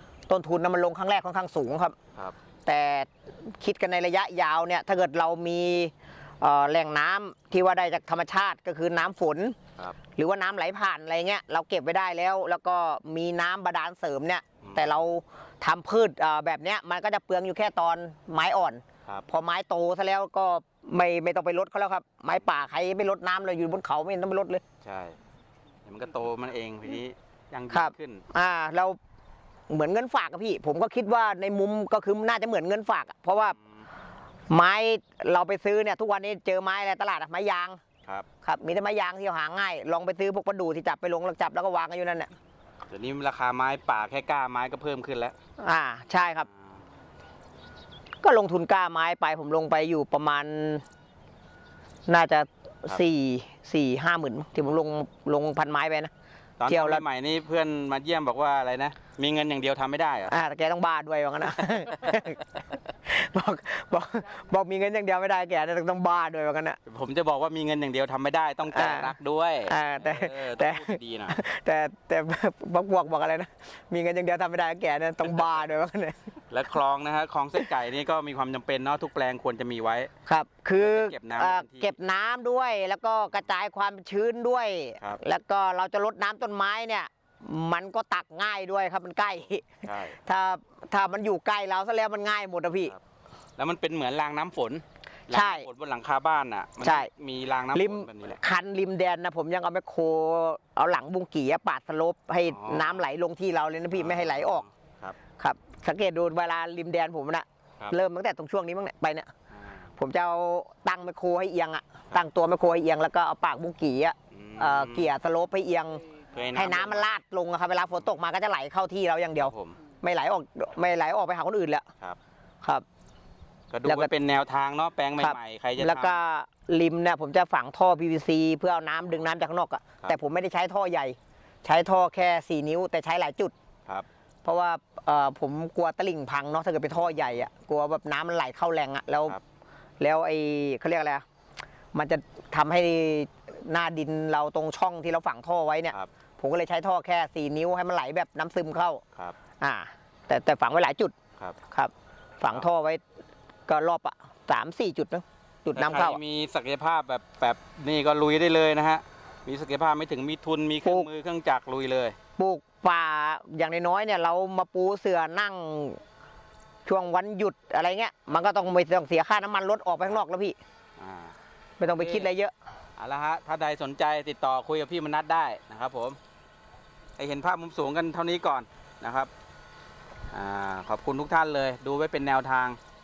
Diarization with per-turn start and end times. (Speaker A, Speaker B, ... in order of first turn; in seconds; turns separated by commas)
Speaker A: 0.3-1.9, Speaker A: 2.6-9.6, Speaker A: 10.2-24.6, Speaker B: 14.6-15.0, Speaker B: 22.3-22.6, Speaker B: 24.8-25.2, Speaker B: 25.9-28.2, Speaker A: 27.7-29.0, Speaker A: 29.7-33.6, Speaker B: 33.4-33.8, Speaker A: 34.5-37.8, Speaker A: 38.4-42.3, Speaker B: 42.9-45.3, Speaker A: 45.6-46.5, Speaker B: 46.5-46.8, Speaker A: 48.2-50.8, Speaker A: 52.1-56.1, Speaker B: 56.6-60.3, Speaker A: 56.7-57.0, Speaker A: 60.3-62.5, Speaker A: 63.0-66.8, Speaker B: 66.8-71.4, Speaker A: 68.7-69.1, Speaker A: 69.7-76.2, Speaker B: 76.5-80.1, Speaker A: 80.2-89.7, Speaker B: 80.8-81.9, Speaker B: 89.8-90.2, Speaker A: 90.2-92.9, Speaker B: 93.6-98.4, Speaker A: 95.3-95.7, Speaker A: 96.8-97.1, Speaker A: 97.7-104.6, Speaker B: 102.5-103.0, Speaker B: 103.9-105.2, Speaker A: 105.4-109.3, Speaker B: 109.5-109.9, Speaker A: 110.0-116.0, Speaker B: 114.3-115.1, Speaker B: 116.3-117.1, Speaker A: 116.5-121.8, Speaker B: 119.4-119.8, Speaker B: 123.7-126.2, Speaker A: 123.8-124.1, Speaker A: 125.2-133.5, Speaker A: 134.4-139.4, Speaker B: 136.9-137.4, Speaker A: 140.0-141.2, Speaker A: 141.9-149.0, Speaker A: 149.6-151.1, Speaker A: 151.7-153.0, Speaker A: 153.7-156.2, Speaker B: 155.8-162.2, Speaker A: 162.4-166.0, Speaker A: 166.8-170.6, Speaker B: 171.0-172.3, Speaker A: 171.8-172.5, Speaker B: 173.0-176.2, Speaker B: 177.2-179.3, Speaker B: 180.3-182.8